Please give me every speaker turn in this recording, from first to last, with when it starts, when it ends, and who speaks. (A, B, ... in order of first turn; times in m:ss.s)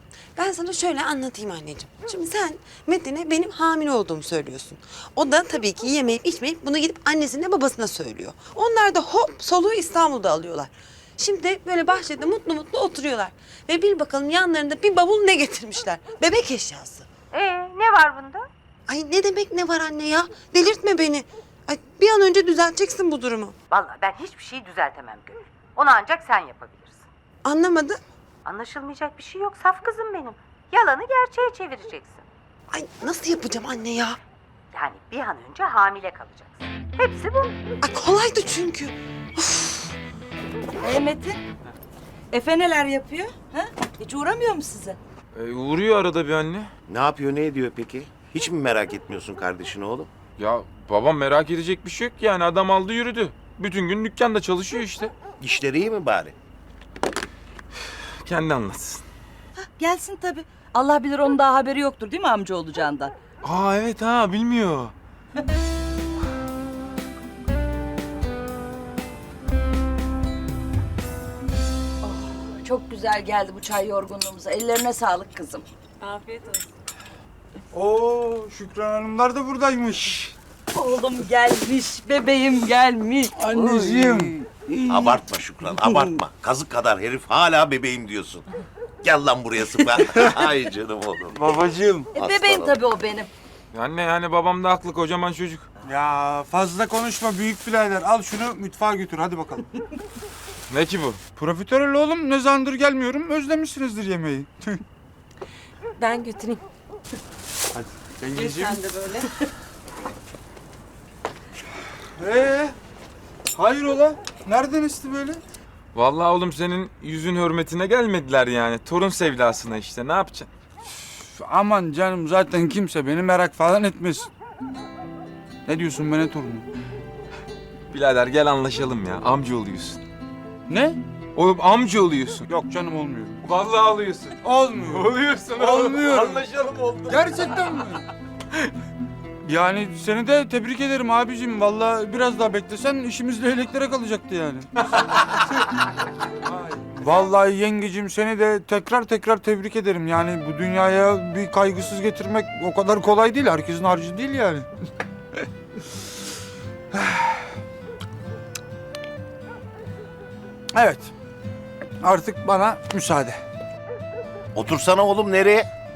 0:00.4-0:17.1 A
0:17.3-0:18.5 B
0:18.9-0:23.5 A
0:23.7-0:27.0 B
0:27.4-0:28.0 A
0:28.4-0:32.2 B
0:32.7-0:34.2 A
0:34.7-0:37.6 B
0:37.8-0:39.9 A
0:40.8-0:41.4 C
0:42.3-0:45.0 C
0:45.3-0:46.7 D
0:46.9-0:50.1 E
0:50.4-0:55.1 D
0:55.4-0:56.3 E
0:58.2-0:59.0 D
0:59.8-1:03.1 C
1:03.4-1:04.9 D
1:12.0-1:15.6 C
1:16.0-1:16.7 A
1:17.7-1:20.3 F
1:20.7-1:25.1 C
1:23.4-1:24.3 F
1:24.8-1:28.4 E
1:25.8-1:26.2 C
1:29.0-1:31.4 E
1:31.3-1:32.1 F
1:32.1-1:33.3 C
1:32.1-1:32.8 E
1:33.7-1:35.7 D
1:35.8-1:39.6 F
1:40.7-1:41.2 D
1:41.4-1:44.8 F
1:46.0-1:46.6 A
1:47.7-1:48.8 F
1:48.3-1:49.3 A
1:52.2-1:52.7 F
1:53.5-1:55.4 F
1:55.9-2:00.5 D
2:01.1-2:04.3 F
2:05.7-2:06.7 F
2:07.9-2:10.0 D
2:10.7-2:11.0 F
2:11.3-2:12.5 D
2:12.5-2:13.4 F
2:13.4-2:17.9 D
2:14.4-2:16.4 F
2:17.1-2:18.0 F
2:19.4-2:25.3 F
2:26.4-2:34.7 F
2:36.9-2:37.5 F
2:40.7-2:41.1 F
2:42.0-2:43.4 F
2:44.5-2:45.7 E